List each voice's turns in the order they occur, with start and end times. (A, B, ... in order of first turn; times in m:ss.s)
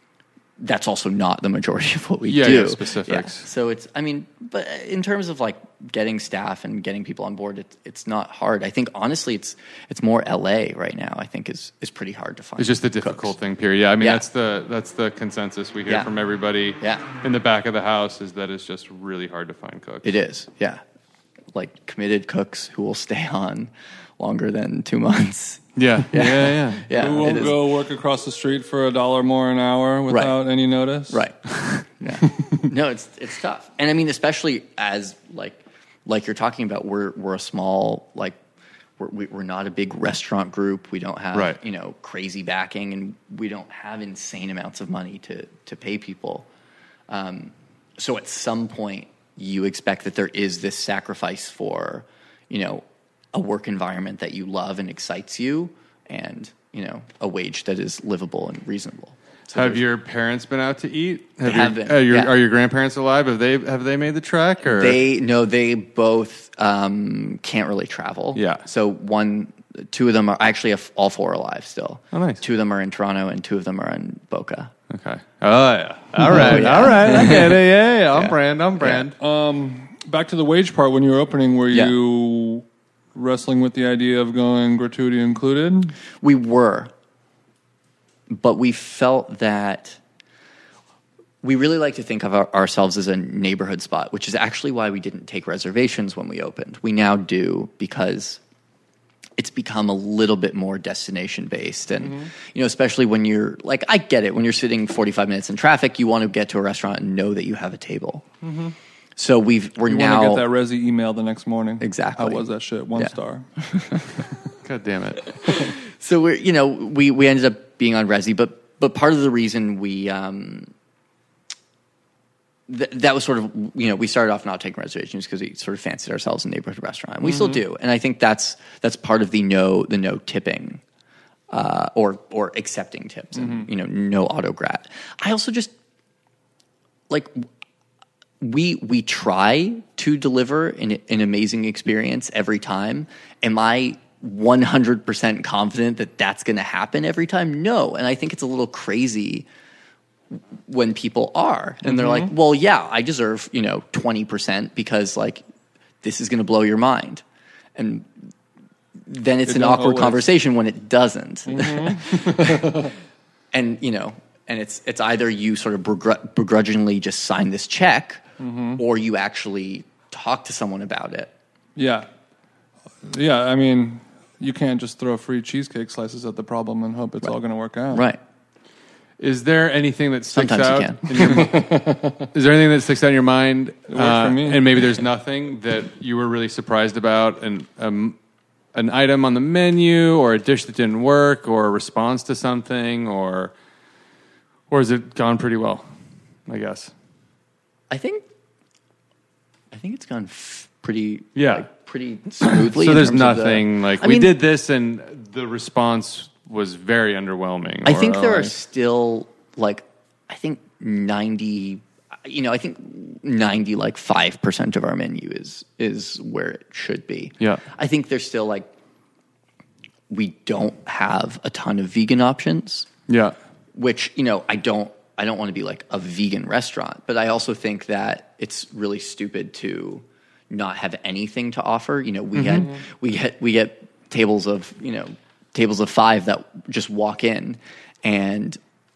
0:00.6-0:13.4 A
0:02.3-0:03.5 B
0:12.6-0:20.2 B
0:20.0-0:20.8 A
0:21.5-0:27.7 A
0:25.8-0:26.8 B
0:26.9-0:31.2 C
0:30.1-0:30.4 A
0:31.1-0:38.4 A
0:39.0-0:46.5 A
0:47.1-0:59.8 A
0:59.5-1:05.0 B
1:01.4-1:02.3 A
1:04.7-1:14.7 A
1:08.4-1:08.6 B
1:12.1-1:12.4 B
1:14.9-1:19.2 B
1:16.3-1:17.6 A
1:18.1-1:19.1 A
1:19.2-1:26.0 C
1:26.2-1:26.9 A
1:28.3-1:30.0 A
1:31.4-1:38.4 A
1:39.4-1:48.2 A
1:42.0-1:42.3 C
1:48.4-1:48.8 C
1:49.2-1:50.5 A
1:49.8-1:53.5 C
1:51.8-1:54.2 A
1:54.6-1:55.4 B
1:55.4-2:00.7 A
2:02.7-2:10.8 A
2:07.3-2:07.6 C
2:11.5-2:15.7 A
2:13.4-2:13.7 C
2:17.1-2:17.5 A
2:18.4-2:29.5 A
2:30.3-2:35.4 A
2:31.9-2:32.3 C
2:36.0-2:37.2 A
2:37.8-2:38.1 A
2:39.0-2:42.9 A
2:39.4-2:40.3 C
2:41.5-2:42.9 C
2:43.5-2:48.2 A
2:48.4-2:48.8 C
2:48.8-2:51.3 A
2:51.8-2:52.1 C
2:53.0-2:58.1 C
2:57.9-2:58.2 A
2:59.2-3:08.2 B
3:00.3-3:01.6 A
3:01.2-3:02.3 C
3:03.9-3:04.6 C
3:08.7-3:13.5 B
3:14.7-3:15.8 B
3:16.5-3:16.9 B
3:17.9-3:18.2 A
3:19.7-3:24.4 A
3:21.4-3:21.7 B
3:22.4-3:28.5 B
3:27.8-3:38.7 A
3:40.1-3:42.9 A
3:43.1-3:43.4 B
3:43.8-3:58.6 A
3:52.4-3:52.7 B